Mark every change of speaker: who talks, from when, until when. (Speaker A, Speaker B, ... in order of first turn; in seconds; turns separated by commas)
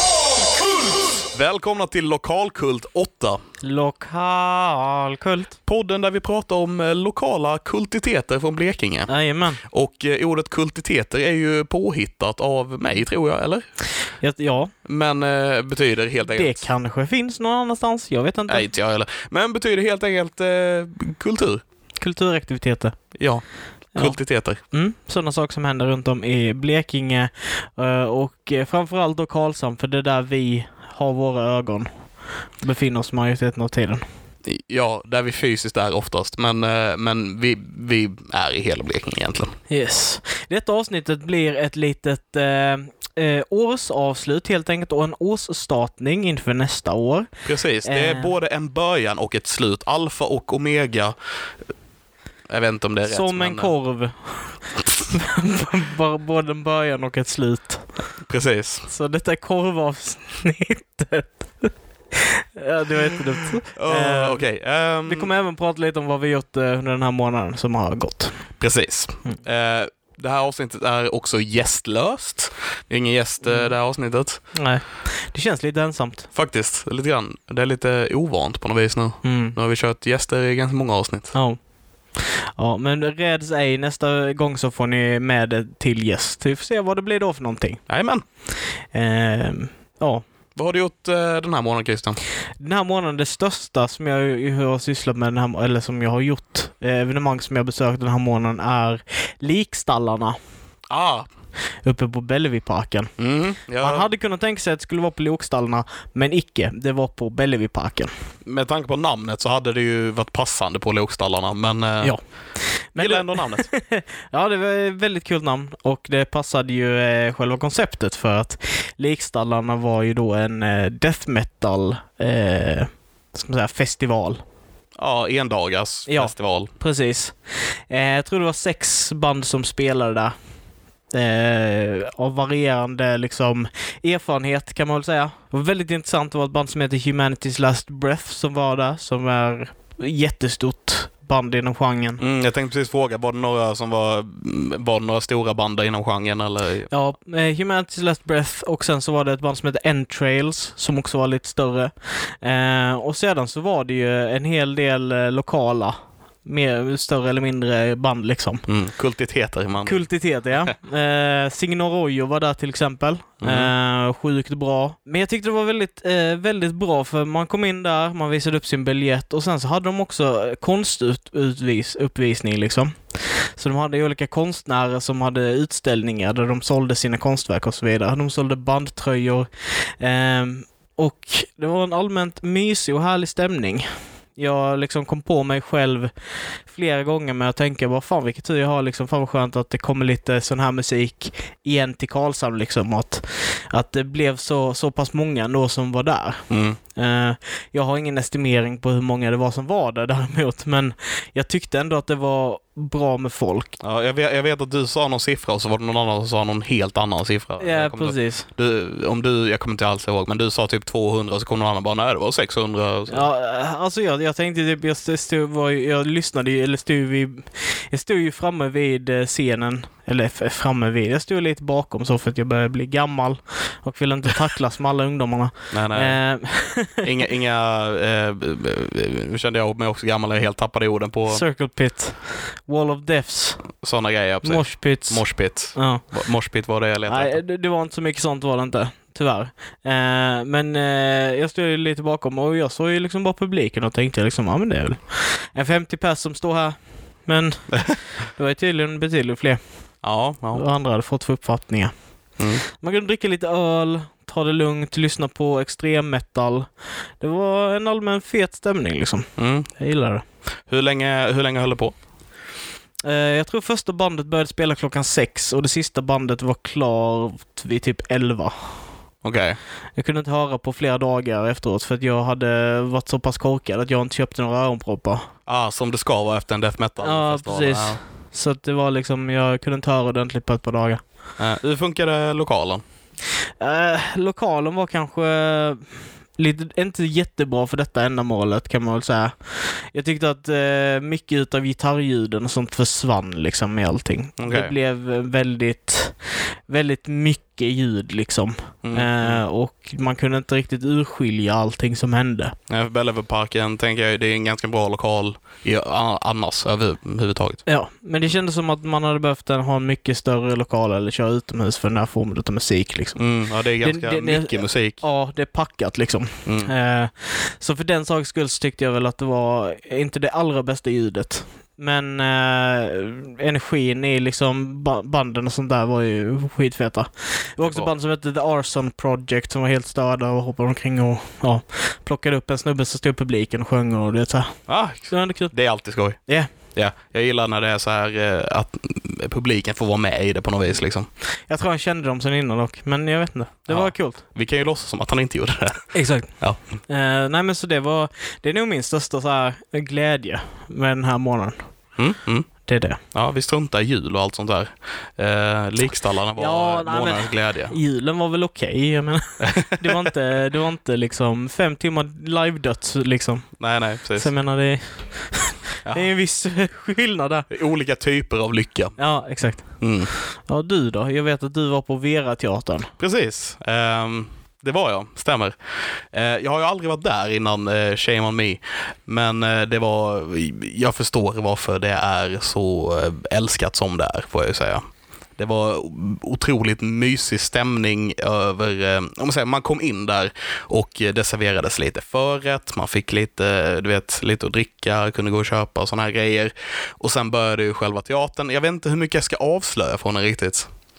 Speaker A: 1.3-3.4, Speaker B: 3.6-5.6, Speaker A: 5.7-9.1, Speaker B: 9.1-9.6, Speaker A: 9.6-13.6, Speaker B: 14.1-14.7, Speaker A: 14.8-16.6, Speaker B: 16.3-18.7, Speaker A: 18.5-21.6, Speaker B: 22.0-23.0, Speaker A: 23.2-24.6, Speaker B: 23.9-32.1, Speaker B: 32.6-34.0, Speaker A: 34.5-39.5, Speaker B: 39.7-47.3, Speaker A: 47.5-51.1, Speaker B: 47.8-48.3, Speaker A: 52.5-53.7, Speaker B: 53.1-58.1, Speaker A: 58.2-58.9, Speaker B: 58.9-64.4, Speaker A: 63.7-65.3, Speaker B: 65.1-68.4, Speaker A: 68.6-74.4, Speaker B: 73.5-73.7, Speaker B: 74.5-76.3, Speaker A: 76.3-81.3, Speaker B: 79.2-79.6, Speaker B: 82.2-87.8, Speaker A: 87.9-88.2, Speaker B: 88.5-90.2, Speaker A: 90.6-92.2, Speaker B: 92.6-100.4, Speaker A: 100.9-101.3, Speaker B: 101.8-103.1, Speaker A: 103.2-104.1, Speaker B: 103.8-108.1, Speaker A: 108.5-113.7, Speaker B: 112.0-124.4, Speaker A: 125.0-126.7, Speaker B: 126.1-130.3, Speaker B: 131.1-142.2, Speaker A: 142.2-146.9, Speaker B: 146.9-158.7, Speaker A: 158.7-160.1, Speaker B: 159.8-186.1, Speaker A: 163.4-163.7, Speaker B: 186.6-203.8, Speaker A: 196.5-196.8, Speaker A: 203.8-213.3, Speaker B: 207.6-208.5, Speaker B: 213.1-227.1, Speaker A: 225.7-226.2, Speaker A: 227.0-231.4, Speaker B: 231.3-233.7, Speaker A: 233.8-237.4, Speaker B: 234.4-236.0, Speaker B: 237.1-249.8, Speaker A: 250.0-250.7, Speaker B: 250.5-251.9, Speaker B: 252.6-260.2, Speaker A: 259.4-259.7, Speaker A: 260.7-261.9, Speaker B: 263.0-268.8, Speaker A: 269.2-269.6, Speaker B: 270.0-275.3, Speaker A: 275.5-278.0, Speaker B: 277.0-281.0, Speaker A: 281.4-282.8, Speaker B: 283.6-302.6, Speaker A: 294.4-294.7, Speaker A: 298.8-299.4, Speaker A: 302.7-307.6, Speaker B: 307.7-313.3, Speaker A: 313.2-315.0, Speaker B: 313.8-335.5, Speaker A: 316.4-316.7, Speaker A: 327.6-327.9, Speaker A: 334.7-341.1, Speaker B: 341.5-344.2, Speaker A: 343.7-346.6, Speaker B: 345.9-351.7, Speaker A: 352.0-352.5, Speaker B: 352.6-353.0, Speaker A: 353.1-357.8, Speaker B: 356.4-363.6, Speaker A: 359.4-360.1, Speaker A: 363.6-364.3, Speaker B: 364.1-367.5, Speaker A: 367.5-369.0, Speaker B: 369.0-372.9, Speaker A: 369.8-370.1, Speaker A: 373.0-384.8, Speaker A: 385.4-400.7